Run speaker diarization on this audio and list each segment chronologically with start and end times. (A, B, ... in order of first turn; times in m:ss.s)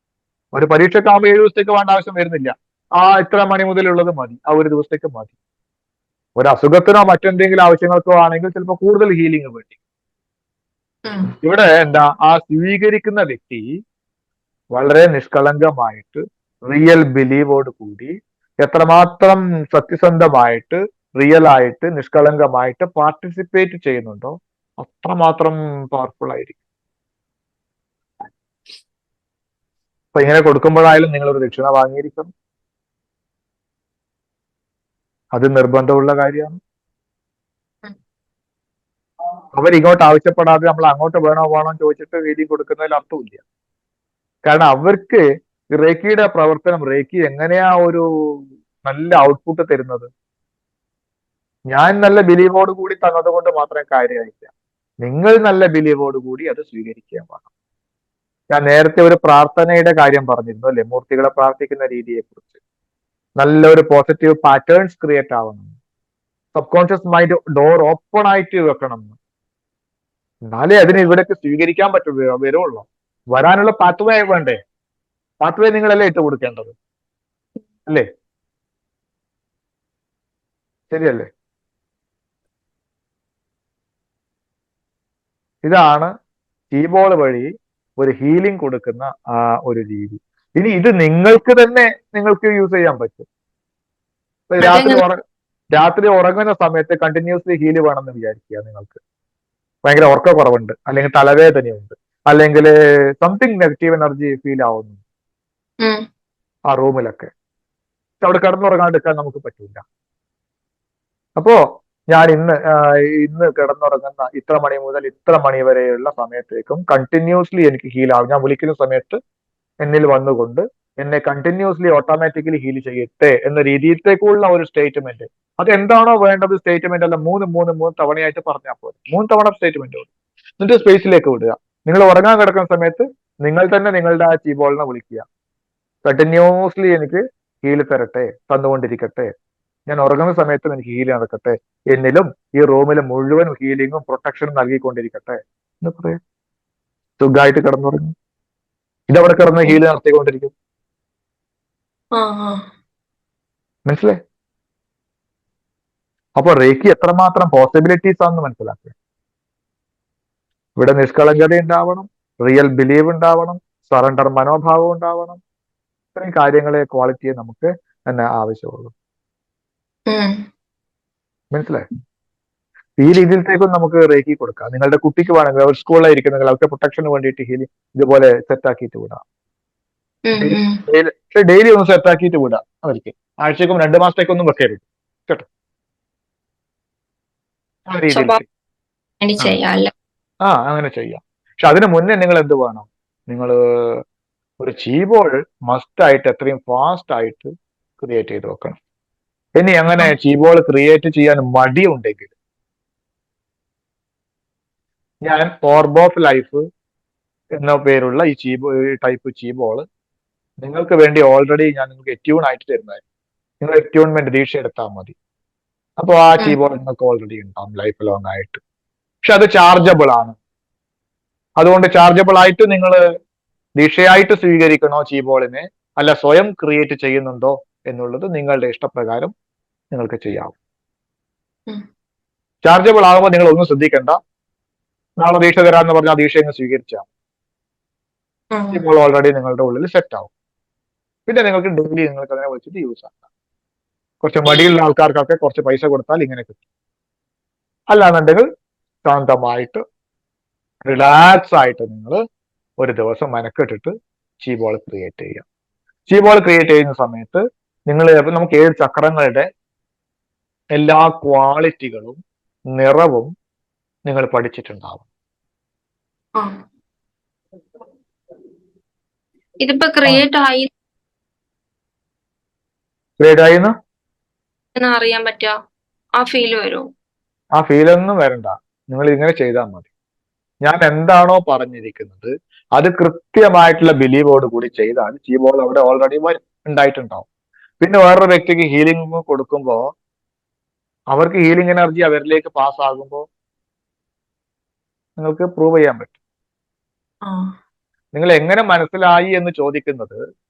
0:00.5-0:05.3 A
0:06.4-0:09.8 A
0:11.0-0:11.3 B
0:11.4-0:13.6 A
0:14.7-0:18.1 A
0:18.6-0:26.6 A
0:30.1-0:32.3 A
0:35.3-0:36.6 A
0:39.5-0:43.4 A
0:44.4-0:48.0 A
0:48.8-0:50.1 A
0:51.7-0:54.5 A
0:55.0-0:57.4 A
0:58.5-1:02.5 A
1:03.4-1:05.7 A
1:06.5-1:09.1 A
1:10.5-1:14.6 A
1:15.4-1:16.7 A
1:20.9-1:21.3 A
1:25.6-1:26.1 A
1:26.7-1:29.1 A
1:29.6-1:33.2 A
1:34.5-1:35.2 A
1:34.6-1:35.0 B
1:35.7-1:39.0 A
1:39.8-1:45.0 A
1:46.7-1:47.3 A
1:48.2-1:49.8 A
1:52.1-1:59.2 A
1:59.8-2:15.2 A
2:16.0-2:19.3 A
2:19.9-2:26.2 A
2:27.2-2:28.1 A
2:29.1-2:30.5 A
2:32.1-2:32.7 B
2:33.8-2:34.2 A
2:36.4-2:38.9 A
2:40.8-2:45.4 A
2:46.2-2:48.9 A
2:50.1-2:50.4 B
2:51.5-2:51.8 A
2:53.0-2:59.2 A
3:00.2-3:00.8 B
3:00.4-3:05.4 A
3:07.9-3:08.4 A
3:08.1-3:08.4 B
3:09.2-3:09.9 B
3:10.4-3:13.6 A
3:14.6-3:18.8 A
3:19.6-3:22.3 A
3:25.2-3:26.6 A
3:27.6-3:29.8 A
3:30.6-3:33.0 A
3:33.6-3:35.1 A
3:36.0-3:38.6 A
3:39.2-3:40.3 A
3:41.6-3:43.0 A
3:43.8-3:49.3 A
3:49.9-3:50.6 A
3:52.6-3:54.2 A
3:55.2-3:57.1 A
3:58.5-3:58.8 B
3:58.7-4:00.3 A
4:01.3-4:03.2 A
4:04.2-4:06.6 A
4:07.9-4:08.4 A
4:09.0-4:09.8 A
4:10.9-4:12.2 A
4:12.8-4:15.4 A
4:16.1-4:19.5 A
4:20.8-4:22.2 A
4:22.7-4:23.3 A
4:24.1-4:25.0 A
4:29.6-4:30.7 B
4:33.2-4:33.7 A
4:34.8-4:35.5 B
4:36.2-4:36.9 B
4:37.6-4:39.9 A
4:40.6-4:47.3 A
4:47.8-4:49.8 A
4:51.1-4:53.2 A
4:55.2-4:56.1 A
4:57.2-4:57.5 B
4:58.1-5:00.2 A